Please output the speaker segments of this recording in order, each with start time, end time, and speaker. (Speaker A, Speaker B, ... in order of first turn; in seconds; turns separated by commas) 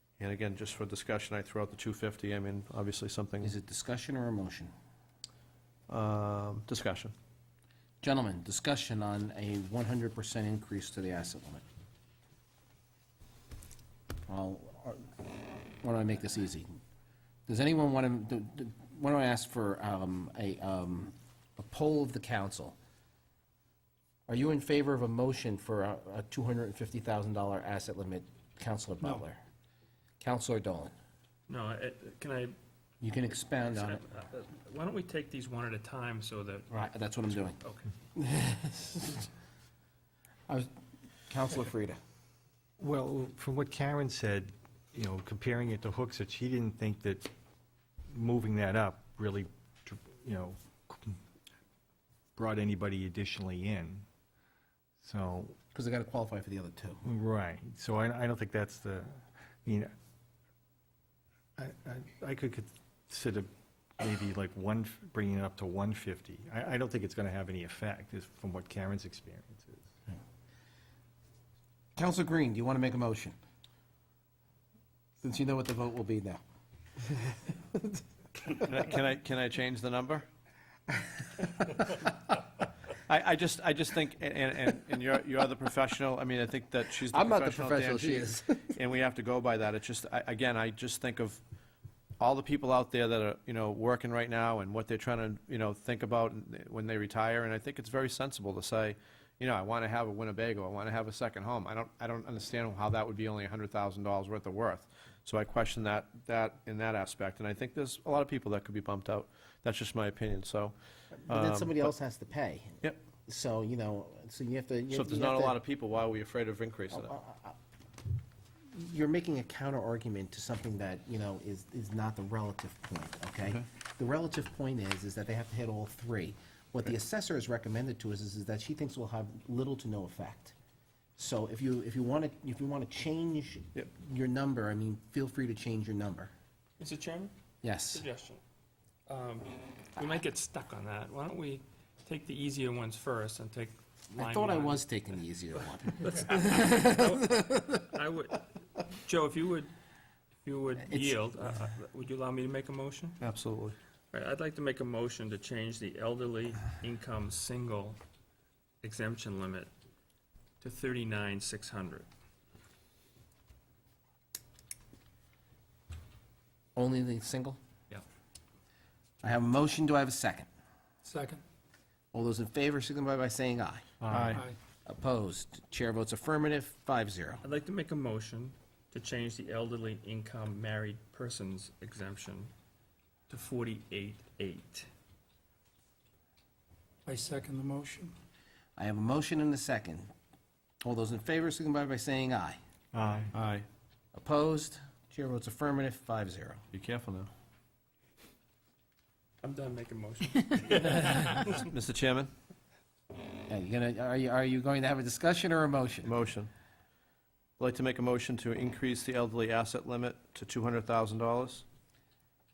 Speaker A: 0.2-3.5, Speaker B: 3.4-4.7, Speaker A: 5.9-7.1, Speaker B: 8.0-11.6, Speaker B: 14.3-16.7, Speaker B: 17.5-22.8, Speaker B: 24.3-29.4, Speaker B: 30.2-30.9, Speaker C: 31.5-32.5, Speaker B: 33.0-34.0, Speaker C: 33.7-36.9, Speaker B: 36.7-37.6, Speaker B: 38.1-39.3, Speaker B: 41.3-42.0, Speaker D: 42.8-47.3, Speaker D: 48.1-51.2, Speaker D: 52.4-54.0, Speaker D: 55.0-55.6, Speaker B: 55.7-57.0, Speaker D: 57.0-59.9, Speaker D: 61.6-69.8, Speaker B: 72.0-73.3, Speaker B: 75.2-76.4, Speaker B: 77.2-78.0, Speaker A: 78.6-80.2, Speaker A: 83.1-91.4, Speaker B: 87.1-88.7, Speaker A: 92.2-110.7, Speaker B: 111.1-115.5, Speaker A: 111.3-111.9, Speaker A: 114.9-117.1, Speaker B: 116.9-117.5, Speaker B: 118.7-130.5, Speaker B: 131.2-136.3, Speaker C: 136.8-137.3, Speaker B: 137.6-138.0, Speaker C: 137.9-138.4, Speaker C: 139.1-144.8, Speaker B: 144.1-147.7, Speaker C: 146.0-149.7, Speaker C: 150.4-153.2, Speaker B: 150.8-151.2, Speaker A: 153.2-153.8, Speaker C: 154.1-158.0, Speaker C: 158.8-159.7, Speaker C: 160.6-162.1, Speaker B: 166.8-167.6, Speaker B: 169.2-170.5, Speaker E: 171.0-171.4, Speaker B: 172.1-173.9, Speaker D: 174.0-174.4, Speaker A: 174.1-174.4, Speaker E: 174.1-174.6, Speaker B: 174.8-177.4, Speaker C: 177.4-182.5, Speaker C: 183.3-184.9, Speaker E: 187.1-188.1, Speaker B: 188.8-190.1, Speaker B: 190.8-192.6, Speaker D: 192.9-193.3, Speaker A: 193.3-193.7, Speaker B: 194.1-196.6, Speaker A: 196.7-197.3, Speaker C: 199.4-201.7, Speaker A: 201.5-202.3, Speaker B: 203.5-206.1, Speaker A: 206.1-206.5, Speaker A: 207.6-211.6